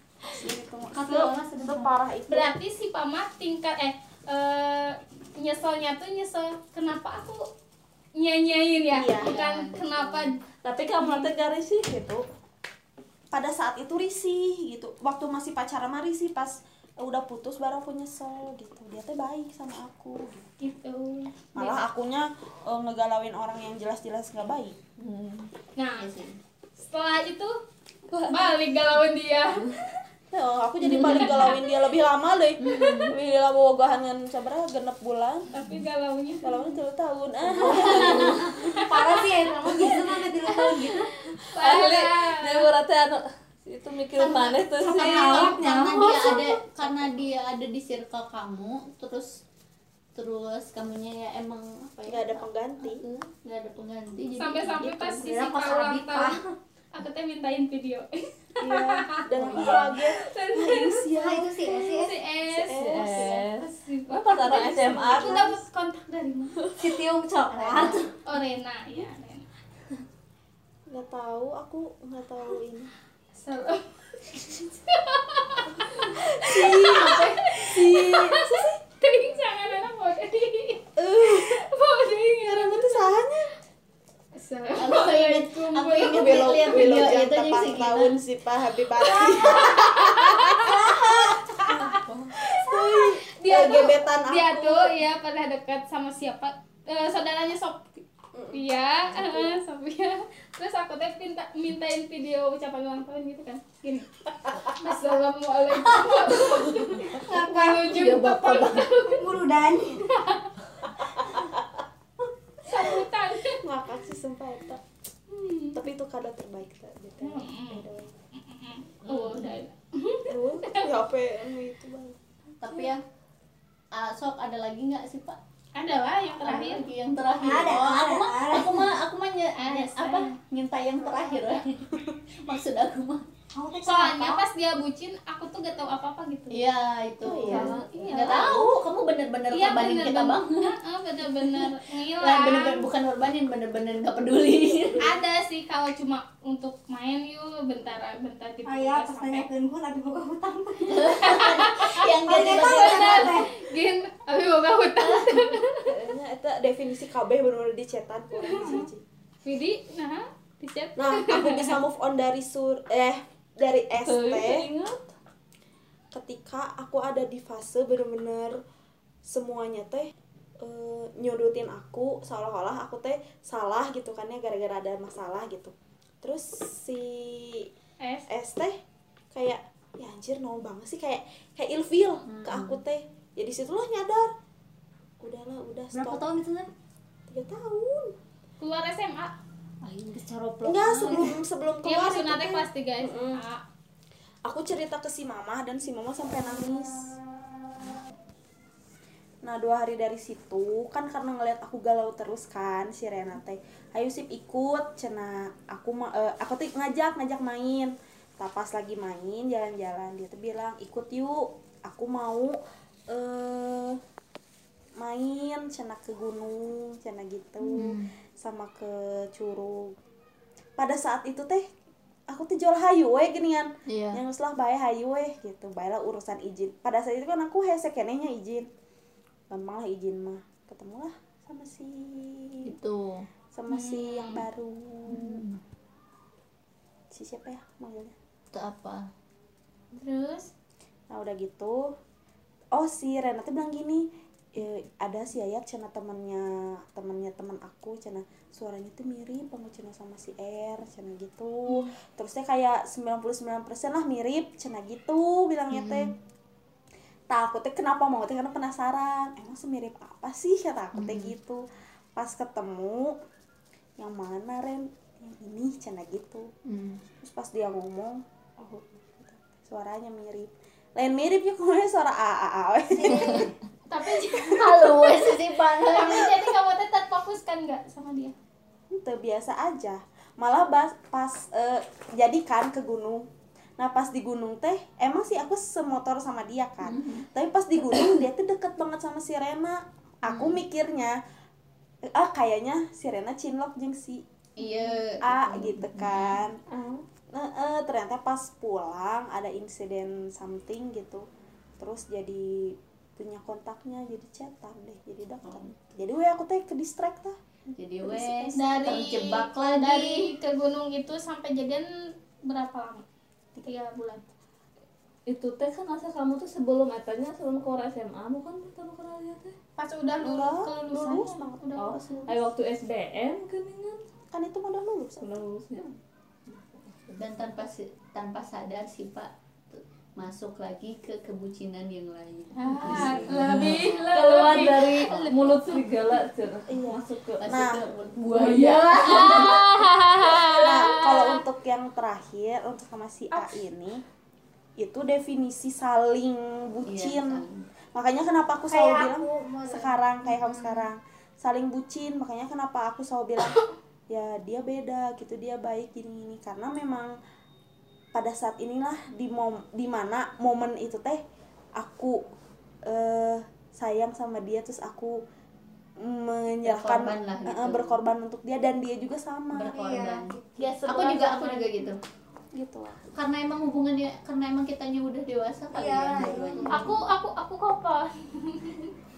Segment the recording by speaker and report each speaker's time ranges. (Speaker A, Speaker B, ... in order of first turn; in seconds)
Speaker A: 0.3-2.5, 8.9-9.3, 13.3-20.4, 21.6-24.8, 30.3-35.5, 36.4-38.6, 52.1-53.0, 58.6-61.6, 62.5-63.4, 70.9-72.9, 76.1-78.8, 81.0-81.7, 82.4-83.5, 86.0-91.6, 92.5-95.0, 98.3-98.6, 99.1-99.5, 113.5-114.8, 115.7-118.1, 120.3-122.2, 137.2-138.8, 144.7-145.2, 155.8-159.0, 161.0-164.7, 166.1-168.6, 169.2-177.7, 178.3-178.8, 179.3-184.3, 185.2-186.2, 187.3-188.2, 190.6-193.4, 194.4-197.2, 199.4-212.6, 213.1-214.0, 215.0-219.9, 220.8-221.7, 222.3-228.7, 229.5-232.7, 233.5-235.4, 237.1-238.1, 241.1-241.9, 242.7-256.1, 257.3-261.6, 262.1-263.2, 264.0-266.5, 267.2-273.5, 278.9-291.2, 292.1-294.2, 295.2-296.6, 297.3-301.3, 301.8-307.4, 308.1-308.5, 320.2-322.4, 324.3-325.4, 336.7-337.9, 340.6-344.0, 344.8-347.4, 347.9-357.2, 358.1-361.2, 361.8-362.2, 362.9-365.2, 366.0-369.8, 372.5-373.0, 376.2-376.9
Speaker B: 0.9-1.9, 37.6-41.1, 44.2-46.5, 55.2-56.4, 61.1-62.2, 66.8-68.1, 107.2-108.1, 109.0-110.0, 127.4-128.9, 133.5-134.4, 148.6-151.5, 152.2-153.6, 185.9-186.7, 191.0-191.3, 272.9-273.5, 348.7-349.9, 369.6-370.7, 375.7-377.0
Speaker C: 2.3-7.5, 8.2-10.4, 11.0-11.3, 20.6-21.8, 25.8-26.1, 26.8-27.6, 28.2-29.8, 31.0-31.6, 35.5-36.7, 37.6-39.2, 39.7-42.7, 45.0-46.6, 54.4-56.4, 56.9-60.0, 61.6-66.7, 68.2-69.5, 73.3-83.2, 84.3-87.1, 89.0-98.0, 98.5-109.4, 110.0-110.5, 112.7-113.6, 115.3-115.8, 117.2-120.9, 125.8-126.9, 129.6-130.3, 131.2-131.6, 133.8-136.7, 137.5-138.8, 139.5-142.9, 145.0-149.5, 151.2-156.0, 158.4-158.9, 159.4-161.8, 178.0-178.3, 188.6-189.3, 191.8-193.6, 233.7-234.5, 239.9-240.5, 273.9-278.4, 308.5-311.9, 312.4-313.1, 313.6-314.3, 319.8-321.9, 332.5-335.9, 339.1-341.4, 353.4-353.7, 370.6-371.7, 376.7-378.9
Speaker D: 9.1-10.3, 26.0-26.4, 30.9-31.5, 32.6-33.1, 37.9-38.4, 44.8-49.4, 50.1-55.5, 67.5-68.1, 84.8-88.2, 107.9-109.0, 122.6-123.0, 124.0-125.4, 126.4-131.8, 132.4-133.2, 136.5-140.7, 141.3-145.1, 150.9-153.5, 182.3-182.8, 189.8-191.3, 217.6-218.1, 223.9-224.2, 232.6-233.3, 235.1-235.6, 238.5-239.1, 255.7-256.1, 260.9-261.3, 266.6-267.0, 274.3-276.5, 286.8-287.3, 290.2-290.6, 294.6-296.4, 307.7-310.3, 327.1-329.3, 330.2-335.3, 337.4-340.3, 346.8-347.6, 350.3-350.9, 366.6-368.0, 369.5-372.0, 373.1-377.0
Speaker E: 10.6-12.2, 25.0-25.5, 28.1-28.6, 41.4-45.6, 59.5-61.0, 62.7-65.6, 66.6-67.0, 91.7-92.3, 119.0-119.6, 137.5-137.9, 164.0-165.1, 296.7-297.0, 315.3-319.6, 321.8-324.0, 325.2-325.9, 332.8-337.4, 338.3-339.5